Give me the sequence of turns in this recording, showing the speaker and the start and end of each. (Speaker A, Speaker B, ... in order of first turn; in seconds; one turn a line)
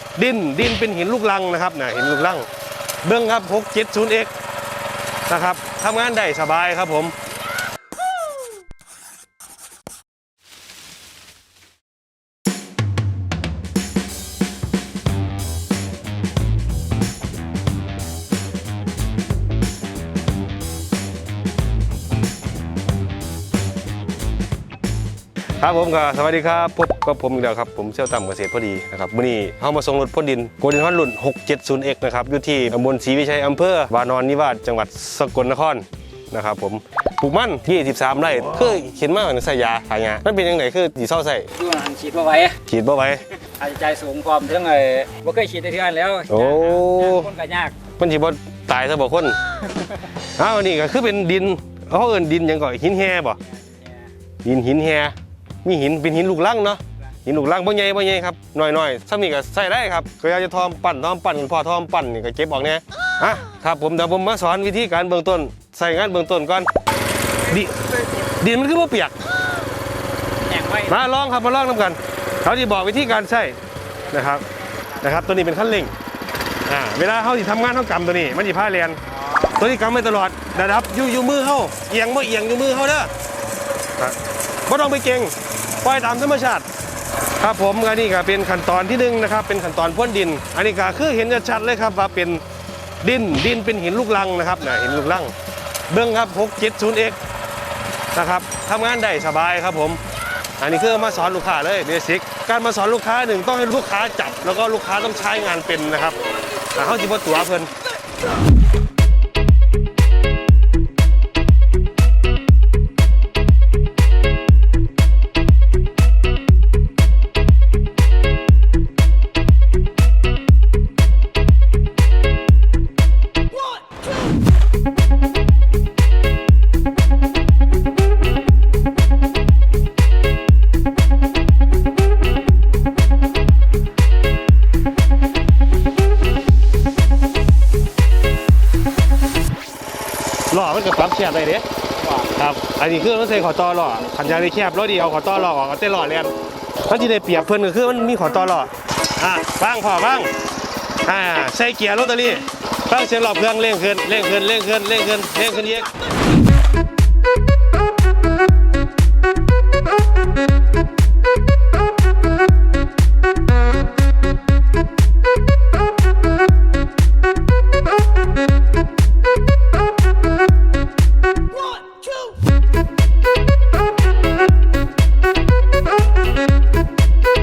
Speaker A: 0.2-2.5
Speaker A: 3.0-4.3
Speaker A: 5.3-7.1
Speaker A: 25.6-41.5
Speaker B: 41.6-42.6
Speaker A: 42.7-43.2
Speaker B: 43.6-47.8
Speaker A: 46.3-47.3
Speaker A: 47.9-49.6
Speaker A: 50.4-53.4
Speaker B: 53.4-54.1
Speaker A: 54.4-66.7
Speaker A: 67.5-69.2
Speaker B: 70.4-71.0
Speaker A: 70.9-73.6
Speaker A: 74.1-74.4
Speaker A: 75.0-75.9
Speaker A: 76.7-79.0
Speaker B: 79.2-79.7
Speaker A: 79.5-83.1
Speaker A: 84.0-86.7
Speaker A: 87.4-92.4
Speaker A: 93.0-95.3
Speaker A: 95.9-97.2
Speaker A: 98.1-100.0
Speaker A: 100.6-107.7
Speaker A: 140.5-141.7
Speaker B: 142.0-142.3
Speaker A: 142.3-146.3
Speaker A: 146.8-150.3
Speaker A: 151.1-155.9